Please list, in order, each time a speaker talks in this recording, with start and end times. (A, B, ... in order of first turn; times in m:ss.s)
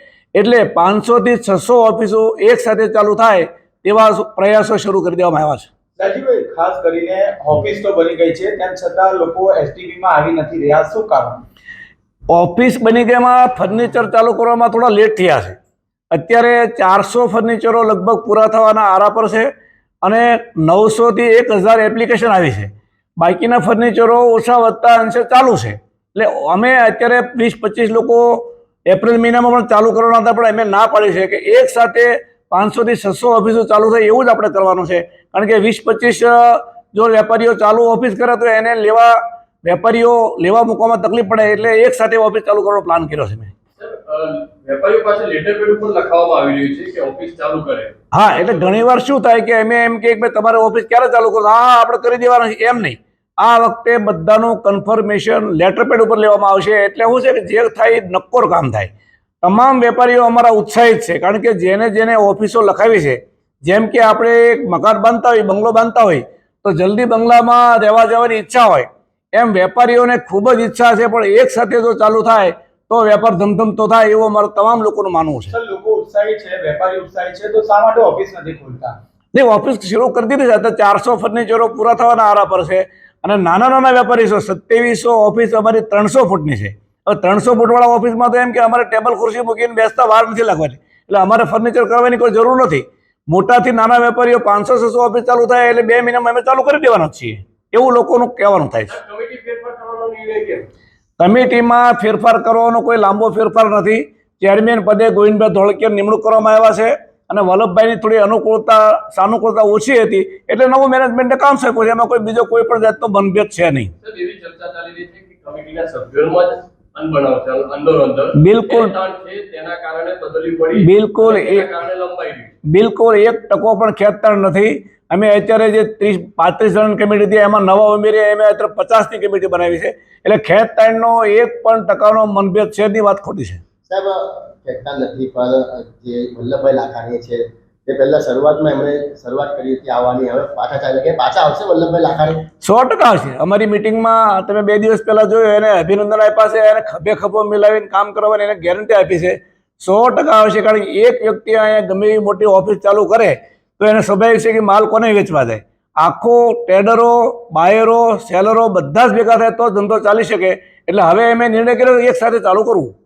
0:00.3-0:05.7 A
0:06.0-0:11.4 B
0:12.3-0:15.6 A
0:16.1-0:19.5 A
0:20.0-0:43.5 A
0:43.8-0:47.9 C
0:48.1-0:58.9 A
0:59.4-1:15.5 A
1:15.5-1:18.9 B
1:19.3-1:39.0 A
1:38.9-1:40.7 C
1:41.2-1:53.9 A
1:54.0-2:02.5 C
1:58.3-1:59.0 A
2:00.8-2:01.7 A
2:02.6-2:13.6 A
2:13.9-2:22.4 D
2:22.6-2:42.9 A